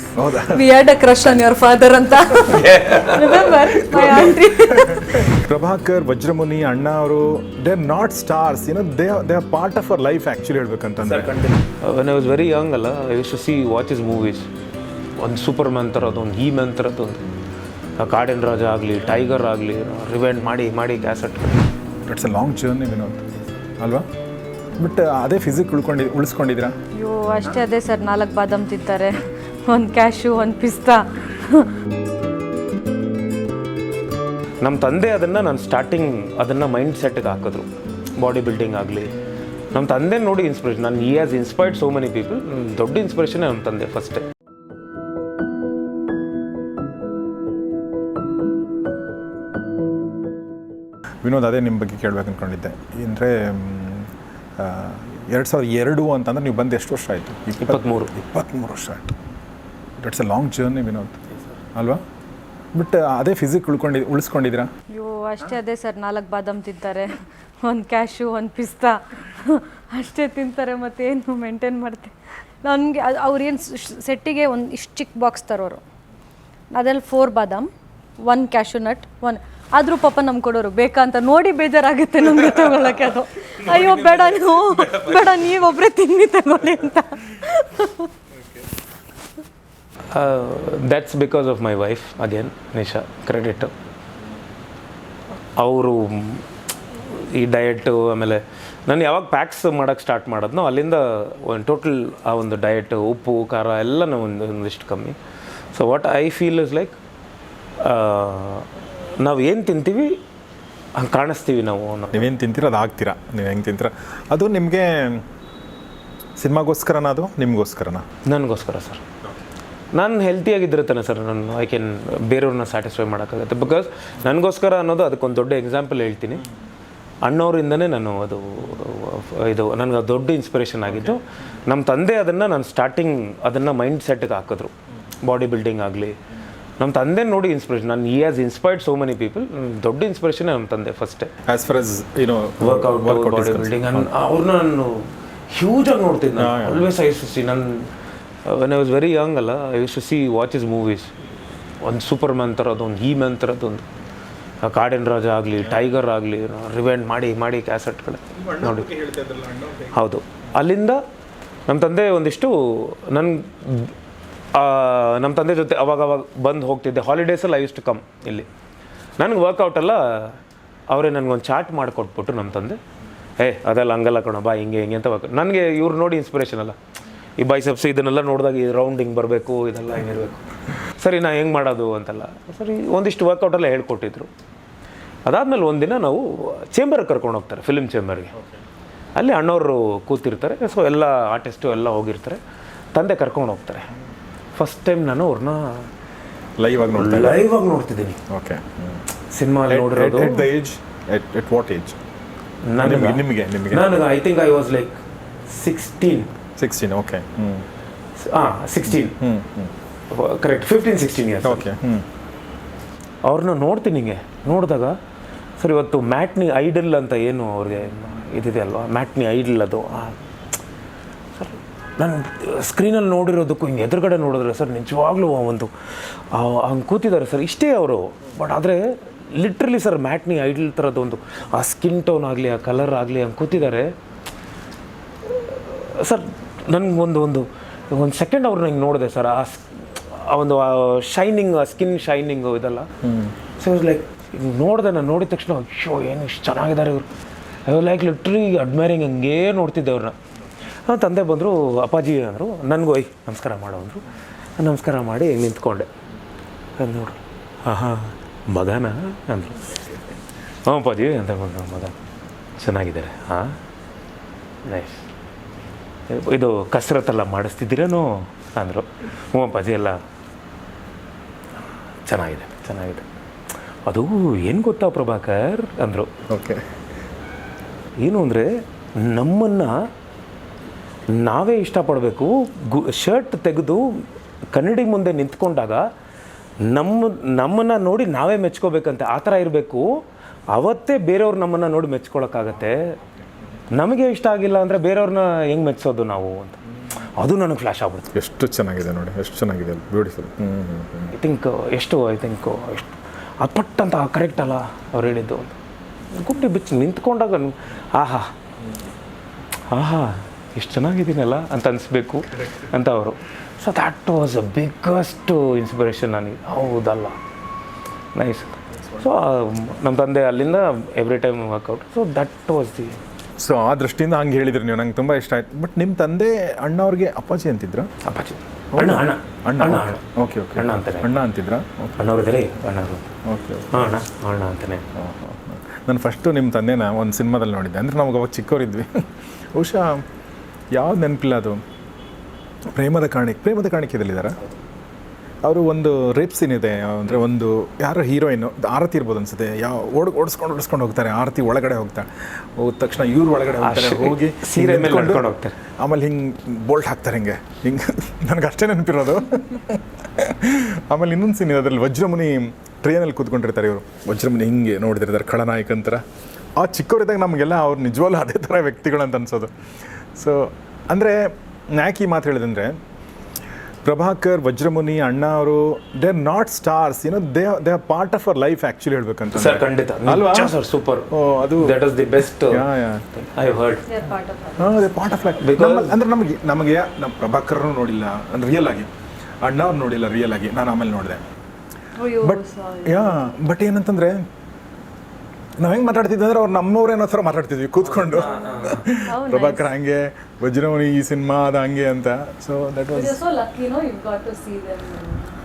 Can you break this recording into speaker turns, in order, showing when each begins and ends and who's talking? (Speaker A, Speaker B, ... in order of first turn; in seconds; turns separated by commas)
Speaker A: 0.1-0.6, Speaker B: 0.4-5.4, Speaker C: 2.4-4.3, Speaker A: 4.7-11.3, Speaker C: 11.0-14.5, Speaker C: 15.2-17.3, Speaker C: 18.0-21.6, Speaker A: 22.0-23.2, Speaker A: 23.8-24.1, Speaker A: 24.8-26.8, Speaker B: 26.9-31.7, Speaker C: 34.6-39.1, Speaker C: 39.7-44.2, Speaker A: 51.2-59.1, Speaker C: 57.6-58.1, Speaker A: 60.0-61.2, Speaker A: 61.7-62.0, Speaker A: 62.7-64.7, Speaker B: 64.9-75.8, Speaker B: 76.7-77.7, Speaker B: 78.2-88.1, Speaker C: 90.1-93.7, Speaker C: 95.5-105.2, Speaker C: 105.7-107.0, Speaker C: 107.8-108.7, Speaker C: 109.2-110.2, Speaker C: 110.9-112.3, Speaker A: 112.1-115.2, Speaker A: 116.4-118.1, Speaker C: 118.2-119.0, Speaker C: 119.9-126.4, Speaker C: 127.2-136.2, Speaker C: 136.8-141.3, Speaker A: 141.4-144.1, Speaker C: 142.6-147.9, Speaker A: 146.4-146.9, Speaker C: 148.4-151.1, Speaker C: 151.8-153.8, Speaker C: 154.6-158.9, Speaker A: 158.3-160.0, Speaker C: 159.9-161.0, Speaker C: 161.7-163.9, Speaker C: 164.5-168.5, Speaker C: 169.2-172.8, Speaker C: 173.4-176.8, Speaker C: 177.4-180.4, Speaker C: 181.0-184.3, Speaker C: 185.2-188.3, Speaker C: 189.2-192.4, Speaker C: 192.9-193.9, Speaker C: 194.6-195.9, Speaker A: 196.6-197.4, Speaker C: 196.8-198.2, Speaker A: 198.3-199.0, Speaker C: 199.3-200.5, Speaker A: 199.7-202.0, Speaker C: 202.7-206.3, Speaker A: 202.8-204.0, Speaker A: 206.6-207.7, Speaker C: 208.2-209.2, Speaker A: 208.9-209.7, Speaker C: 210.1-211.6, Speaker A: 211.4-212.1, Speaker C: 213.2-215.0, Speaker C: 215.6-220.2, Speaker C: 221.3-225.7, Speaker C: 226.3-233.9, Speaker C: 235.2-242.9, Speaker A: 243.0-243.3, Speaker C: 243.6-247.1, Speaker C: 247.7-250.2, Speaker C: 250.8-254.0, Speaker C: 254.6-255.9, Speaker C: 256.8-260.0, Speaker C: 260.6-261.9, Speaker C: 262.6-263.6, Speaker C: 264.6-265.0, Speaker C: 266.1-270.0, Speaker C: 272.1-273.0, Speaker C: 273.9-276.1, Speaker A: 276.3-276.6, Speaker C: 278.0-279.9, Speaker C: 281.1-285.9, Speaker C: 286.6-290.0, Speaker C: 290.5-292.9, Speaker C: 293.7-298.1, Speaker A: 298.1-301.1, Speaker C: 301.1-305.6, Speaker C: 306.1-308.3, Speaker C: 309.7-317.2, Speaker C: 318.1-323.0, Speaker A: 323.4-327.9, Speaker C: 328.0-330.0, Speaker A: 328.7-332.0, Speaker C: 330.6-331.1, Speaker C: 332.0-333.1, Speaker A: 333.2-334.0, Speaker C: 333.7-334.9, Speaker A: 334.9-340.0, Speaker A: 340.7-341.6, Speaker A: 342.7-344.4, Speaker A: 345.4-355.3, Speaker C: 353.6-355.5, Speaker A: 355.8-366.0, Speaker A: 366.6-372.8, Speaker A: 373.8-380.6, Speaker C: 379.3-383.9, Speaker A: 381.1-381.8, Speaker A: 382.5-383.1, Speaker B: 383.9-384.8, Speaker A: 384.6-388.9, Speaker C: 385.4-385.9, Speaker A: 389.4-391.2, Speaker B: 392.0-393.3, Speaker A: 392.2-394.2, Speaker A: 395.6-403.2, Speaker C: 397.8-398.8, Speaker B: 398.1-399.7, Speaker B: 402.9-405.3